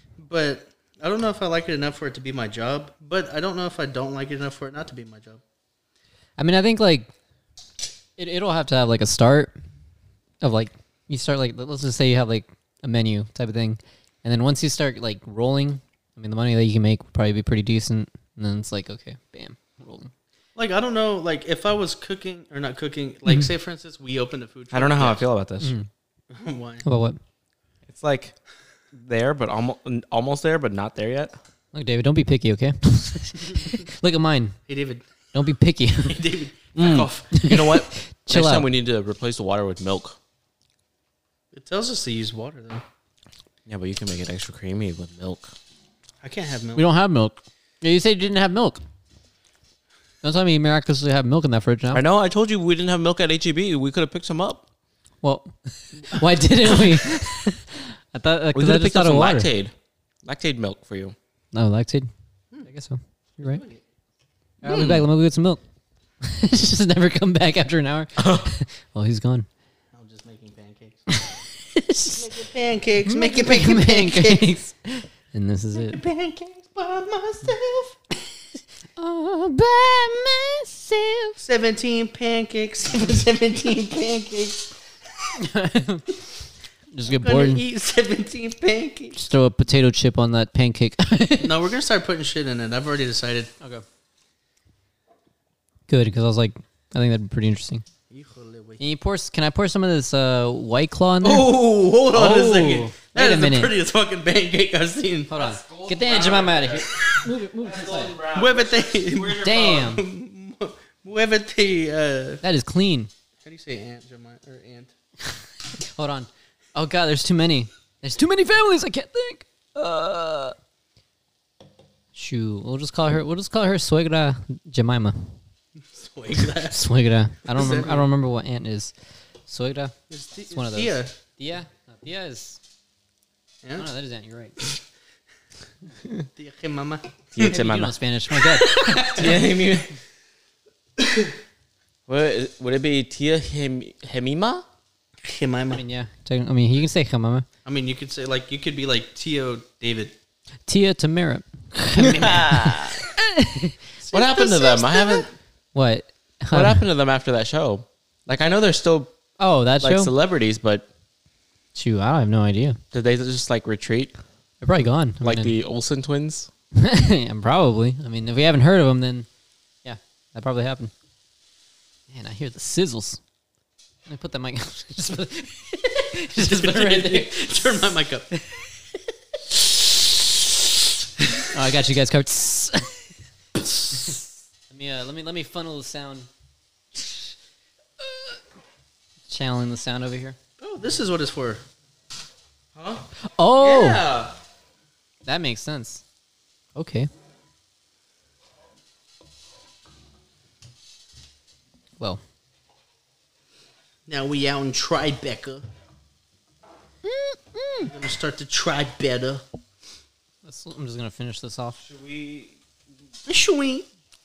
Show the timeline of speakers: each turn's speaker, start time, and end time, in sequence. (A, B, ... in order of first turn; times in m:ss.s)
0:00.2-0:05.4 A
0:06.4-0:07.1 B
0:08.2-0:09.6 B
0:10.4-0:20.1 B
0:20.6-0:25.2 A
0:24.7-0:25.7 C
0:25.6-0:25.9 B
0:26.3-0:26.8 A
0:26.8-0:27.2 B
0:27.9-0:28.4 C
0:28.9-0:31.4 C
0:31.7-0:34.6 B
0:34.7-0:35.0 A
0:35.3-0:36.2 B
0:36.0-0:37.4 A
0:36.8-0:40.2 C
0:37.3-0:38.7 B
0:41.5-0:42.8 A
0:43.7-0:45.5 C
0:46.2-0:46.8 A
0:46.8-0:48.8 B
0:50.2-0:52.0 B
0:51.9-0:54.6 C
0:55.2-0:59.5 B
0:58.5-0:59.7 C
1:00.2-1:01.2 C
1:01.5-1:02.1 B
1:02.6-1:03.6 B
1:03.4-1:03.8 A
1:04.6-1:05.6 B
1:04.7-1:05.0 C
1:06.2-1:09.5 B
1:08.2-1:08.5 C
1:09.9-1:11.1 A
1:11.1-1:12.3 B
1:12.1-1:14.5 A
1:13.0-1:16.0 B
1:15.7-1:18.0 A
1:19.0-1:21.4 B
1:21.4-1:24.7 A
1:25.4-1:26.2 B
1:26.9-1:27.6 B
1:27.1-1:29.3 A
1:29.2-1:31.6 B
1:31.4-1:33.5 A
1:35.9-1:37.8 B
1:38.1-1:38.8 A
1:38.8-1:41.6 B
1:41.2-1:45.3 A
1:42.1-1:43.7 B
1:45.3-1:48.2 B
1:45.3-1:49.9 C
1:48.3-1:52.4 A
1:49.4-1:50.1 B
1:52.4-1:53.1 B
1:53.4-1:54.9 A
1:55.8-2:00.6 B
2:02.2-2:05.4 B
2:05.8-2:06.8 A
2:06.6-2:08.9 B
2:07.4-2:08.1 A
2:09.5-2:10.0 B
2:10.1-2:11.1 A
2:10.5-2:12.6 B
2:13.8-2:14.6 B
2:16.4-2:17.6 A
2:17.3-2:18.0 C
2:17.4-2:19.0 B
2:18.4-2:19.5 A
2:19.0-2:19.9 C
2:22.1-2:24.6 C
2:25.2-2:25.8 A
2:25.7-2:27.5 B
2:27.6-2:30.2 A
2:30.7-2:35.2 B
2:32.0-2:33.0 C
2:34.1-2:34.9 A
2:34.1-2:35.3 C
2:35.7-2:36.8 B
2:36.5-2:39.1 C
2:39.4-2:40.1 B
2:39.8-2:40.9 C
2:41.8-2:42.8 B
2:42.9-2:44.1 C
2:44.6-2:45.5 B
2:45.2-2:46.5 C
2:46.8-2:49.3 B
2:49.8-2:50.9 B
2:52.1-2:53.2 B
2:54.1-2:57.7 B
2:56.4-2:58.3 A
2:58.4-2:58.6 B
3:01.5-3:03.0 B
3:03.9-3:06.3 B
3:07.0-3:07.2 B
3:08.0-3:08.4 B
3:09.3-3:10.4 B
3:10.6-3:11.6 A
3:12.8-3:13.0 C
3:13.2-3:14.1 B
3:13.6-3:14.3 C
3:15.3-3:16.0 B
3:16.8-3:17.1 B
3:24.1-3:25.7 A
3:27.1-3:27.9 B
3:27.8-3:29.4 A
3:30.4-3:31.8 B
3:31.8-3:32.6 C
3:33.3-3:33.9 A